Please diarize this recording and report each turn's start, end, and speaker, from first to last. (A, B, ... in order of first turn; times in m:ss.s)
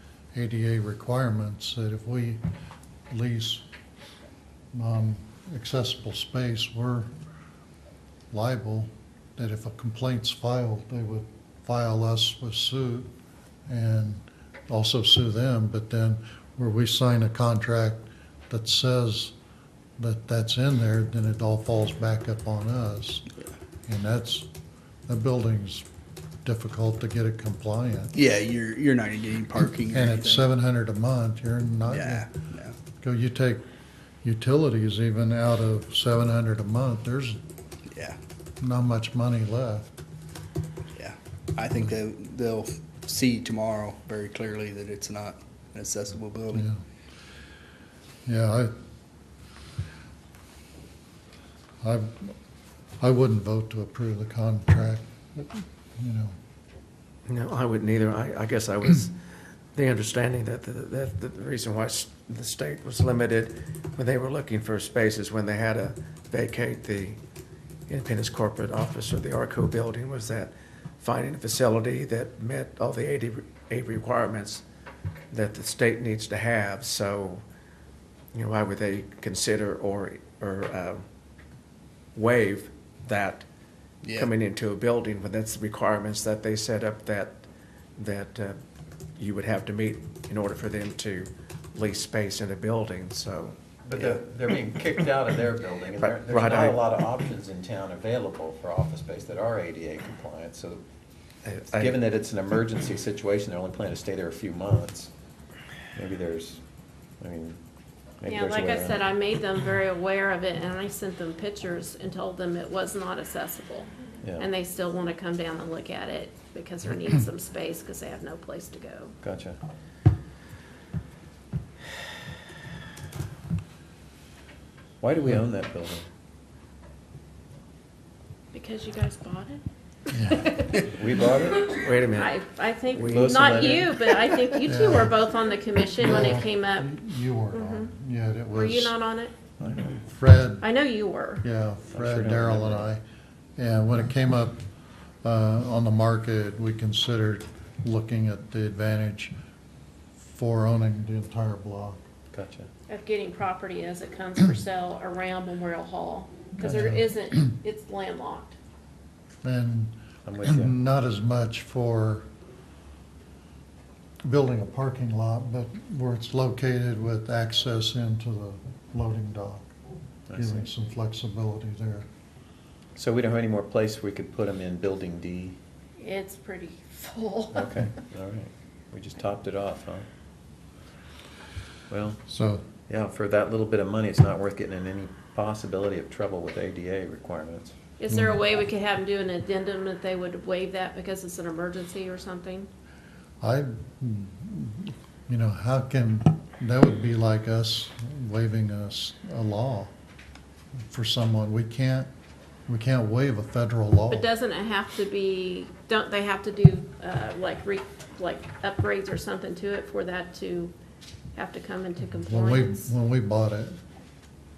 0:00.3-0:02.4 A
0:03.1-0:03.6 A
0:04.7-0:07.1 A
0:08.3-0:13.1 A
0:13.7-0:19.3 A
0:20.0-0:23.3 A
0:23.9-0:24.5 A
0:25.1-0:25.9 A
0:26.4-0:28.1 A
0:28.1-0:30.5 B
0:29.9-0:32.3 A
0:31.9-0:32.8 B
0:33.0-0:33.7 A
0:34.2-0:37.4 A
0:37.9-0:38.2 B
0:38.6-0:39.9 A
0:41.0-0:46.7 B
0:46.5-0:46.8 A
0:48.3-0:48.7 A
0:51.8-0:52.4 A
0:53.0-0:56.4 A
0:57.3-0:59.2 C
0:59.8-1:07.2 C
1:07.9-1:14.6 C
1:15.3-1:17.4 C
1:18.3-1:21.0 C
1:22.2-1:23.5 C
1:24.0-1:24.3 B
1:24.1-1:27.4 C
1:28.0-1:28.6 C
1:29.2-1:33.6 C
1:33.8-1:40.8 D
1:36.0-1:36.8 C
1:41.4-1:42.0 C
1:41.7-1:45.1 D
1:46.0-1:46.6 D
1:47.2-1:47.6 D
1:48.2-1:49.0 D
1:48.3-1:59.2 E
1:54.2-1:54.5 D
1:59.2-1:59.6 D
2:05.0-2:06.1 D
2:08.5-2:09.6 E
2:10.1-2:10.5 A
2:10.2-2:16.9 E
2:10.8-2:11.8 D
2:11.8-2:12.3 C
2:13.0-2:13.3 C
2:13.0-2:14.2 D
2:14.6-2:15.2 A
2:16.0-2:18.9 A
2:17.5-2:17.9 E
2:18.5-2:19.3 E
2:19.6-2:20.0 D
2:20.1-2:20.7 A
2:20.6-2:21.4 E
2:21.4-2:23.0 A
2:21.9-2:22.9 D
2:23.6-2:24.6 A
2:25.2-2:29.3 A
2:30.3-2:32.0 A
2:32.3-2:32.7 D
2:32.9-2:38.6 E
2:36.6-2:36.9 D
2:36.6-2:37.1 A
2:39.4-2:42.3 A
2:40.2-2:40.7 D
2:44.2-2:49.7 A
2:50.3-2:50.7 D
2:50.4-2:52.1 A
2:53.0-2:55.6 D
2:56.0-2:57.9 E
2:57.5-3:00.1 D
3:01.9-3:02.2 D
3:02.3-3:02.6 A
3:02.9-3:07.8 D
3:08.0-3:12.7 E
3:08.1-3:08.4 A
3:13.4-3:19.9 A
3:20.9-3:22.1 A
3:22.7-3:24.3 A
3:24.1-3:30.7 E
3:31.4-3:32.9 E
3:32.1-3:33.8 A